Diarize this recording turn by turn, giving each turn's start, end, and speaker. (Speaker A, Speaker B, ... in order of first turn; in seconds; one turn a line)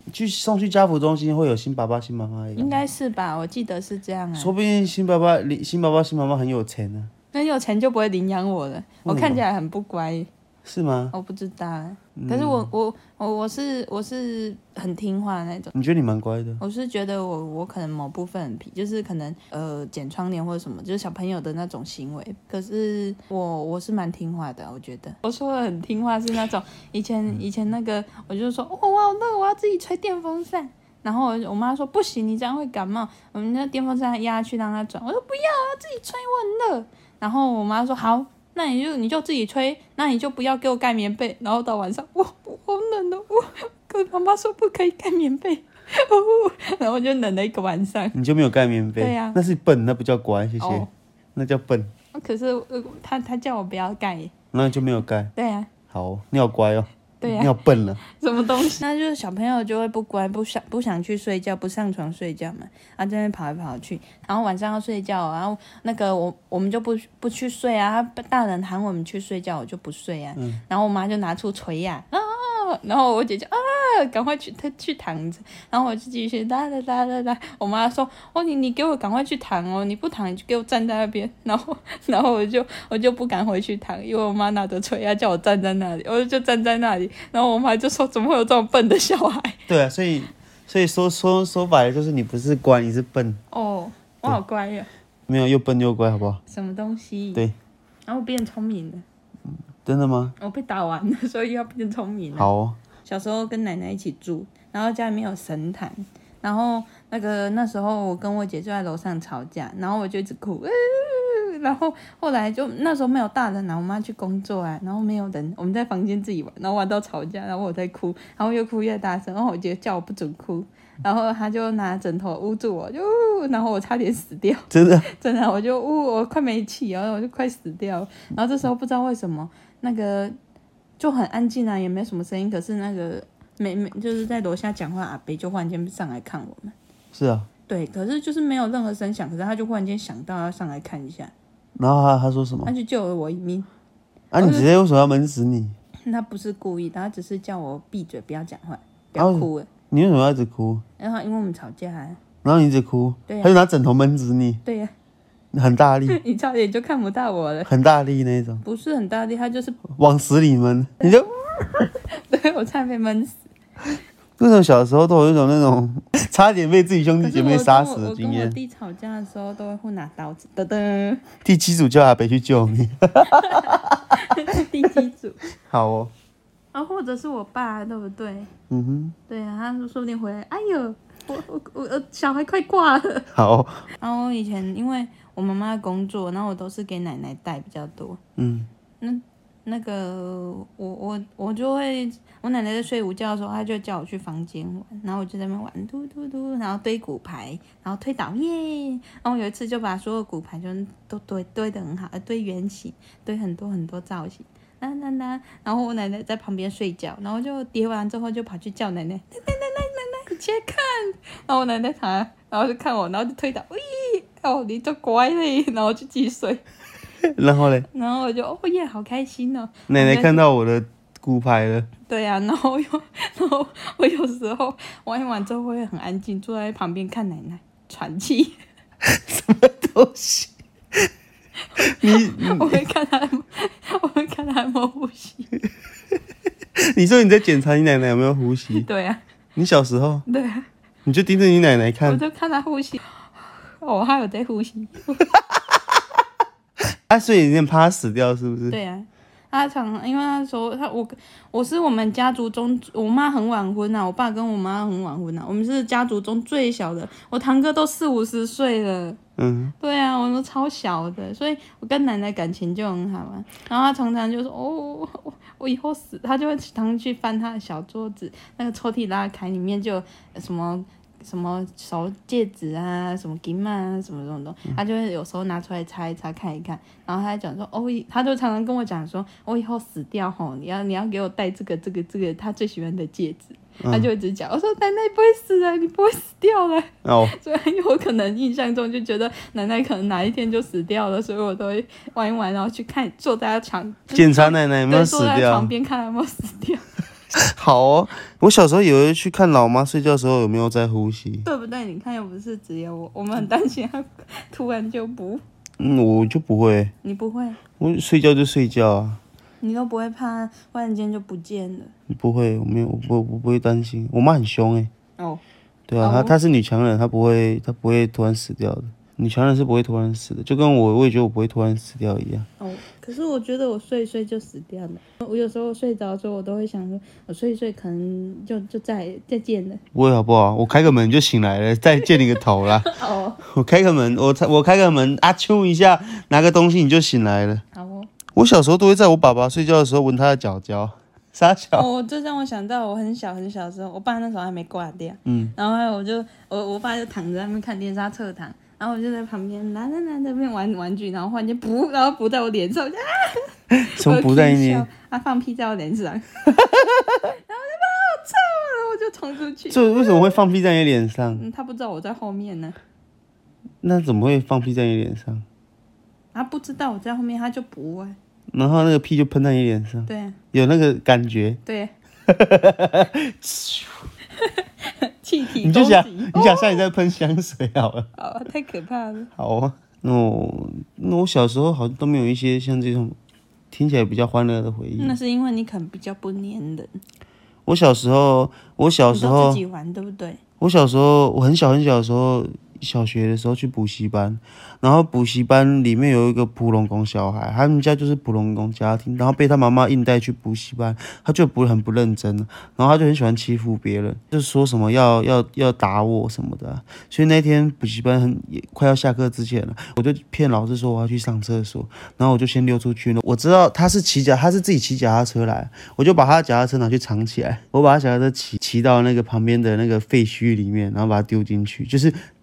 Speaker A: 0.1-2.9
Speaker B: 2.6-4.5
Speaker A: 4.4-7.1
Speaker B: 7.3-10.3
Speaker A: 9.1-9.4
Speaker A: 10.7-11.1
Speaker B: 11.1-15.7
Speaker A: 12.2-12.7
Speaker A: 15.7-16.6
Speaker B: 16.6-48.1
Speaker A: 48.1-51.9
Speaker B: 49.0-49.4
Speaker B: 50.6-50.9
Speaker B: 52.1-54.3
Speaker A: 54.5-55.3
Speaker B: 55.4-55.7
Speaker A: 55.9-58.0
Speaker B: 57.2-89.6
Speaker A: 70.4-70.6
Speaker A: 89.7-93.4
Speaker B: 93.5-94.9
Speaker A: 95.3-96.4
Speaker B: 96.5-97.5
Speaker B: 98.1-99.0
Speaker A: 99.8-100.3
Speaker B: 100.4-102.5
Speaker A: 102.3-102.8
Speaker B: 103.0-130.3
Speaker A: 124.7-125.1
Speaker B: 131.0-136.7
Speaker A: 137.1-137.5
Speaker B: 137.7-141.3
Speaker A: 141.8-142.7
Speaker B: 142.7-143.7
Speaker A: 144.3-145.8
Speaker B: 144.4-144.7
Speaker B: 146.1-149.7
Speaker A: 149.2-150.8
Speaker B: 151.0-152.2
Speaker A: 152.4-154.6
Speaker B: 153.3-153.6
Speaker B: 154.7-154.9
Speaker A: 155.5-156.2
Speaker B: 156.1-157.7
Speaker A: 157.7-158.6
Speaker B: 158.6-159.8
Speaker A: 159.9-161.3
Speaker B: 161.0-163.4
Speaker A: 164.4-168.6
Speaker B: 167.2-171.3
Speaker A: 171.4-174.0
Speaker B: 173.3-175.4
Speaker A: 175.7-176.1
Speaker B: 176.7-178.5
Speaker A: 178.7-179.2
Speaker B: 179.3-183.3
Speaker A: 183.3-183.9
Speaker B: 184.0-188.2
Speaker A: 188.4-188.7
Speaker B: 189.0-216.6
Speaker A: 217.2-217.9
Speaker B: 217.9-220.4
Speaker A: 219.9-221.9
Speaker B: 222.1-228.6
Speaker A: 229.0-231.1
Speaker B: 231.8-235.5
Speaker A: 231.8-232.8
Speaker A: 236.8-238.9
Speaker B: 238.7-239.2
Speaker A: 239.6-240.2
Speaker B: 240.3-240.6
Speaker A: 241.1-242.2
Speaker B: 242.0-245.2
Speaker A: 247.1-248.8
Speaker B: 248.7-259.2
Speaker A: 259.4-259.7
Speaker B: 259.8-296.9
Speaker A: 283.8-284.1
Speaker A: 287.0-287.3
Speaker A: 294.1-295.7
Speaker A: 297.4-301.5
Speaker B: 301.4-305.4
Speaker A: 305.8-306.9
Speaker B: 307.0-307.6
Speaker A: 307.8-309.2
Speaker B: 309.6-311.9
Speaker A: 312.1-314.9
Speaker A: 315.9-322.5
Speaker B: 316.0-316.4
Speaker B: 322.6-329.8
Speaker A: 329.9-332.9
Speaker B: 332.1-333.4
Speaker A: 333.4-337.6
Speaker B: 337.7-338.1
Speaker A: 338.4-341.9
Speaker B: 341.8-356.2
Speaker A: 345.3-345.5
Speaker A: 353.7-354.9
Speaker A: 356.6-357.2
Speaker B: 357.4-360.4
Speaker A: 359.7-361.4
Speaker B: 361.4-362.8
Speaker A: 363.8-365.4
Speaker B: 366.3-368.2
Speaker A: 368.5-371.6
Speaker B: 370.1-370.4
Speaker B: 371.7-371.9
Speaker A: 372.3-374.1
Speaker B: 374.4-376.9
Speaker A: 375.6-378.1
Speaker B: 378.2-379.3
Speaker A: 379.4-383.1
Speaker A: 383.7-385.2
Speaker B: 385.0-386.9
Speaker A: 387.7-389.6
Speaker B: 389.1-390.4
Speaker A: 390.6-422.2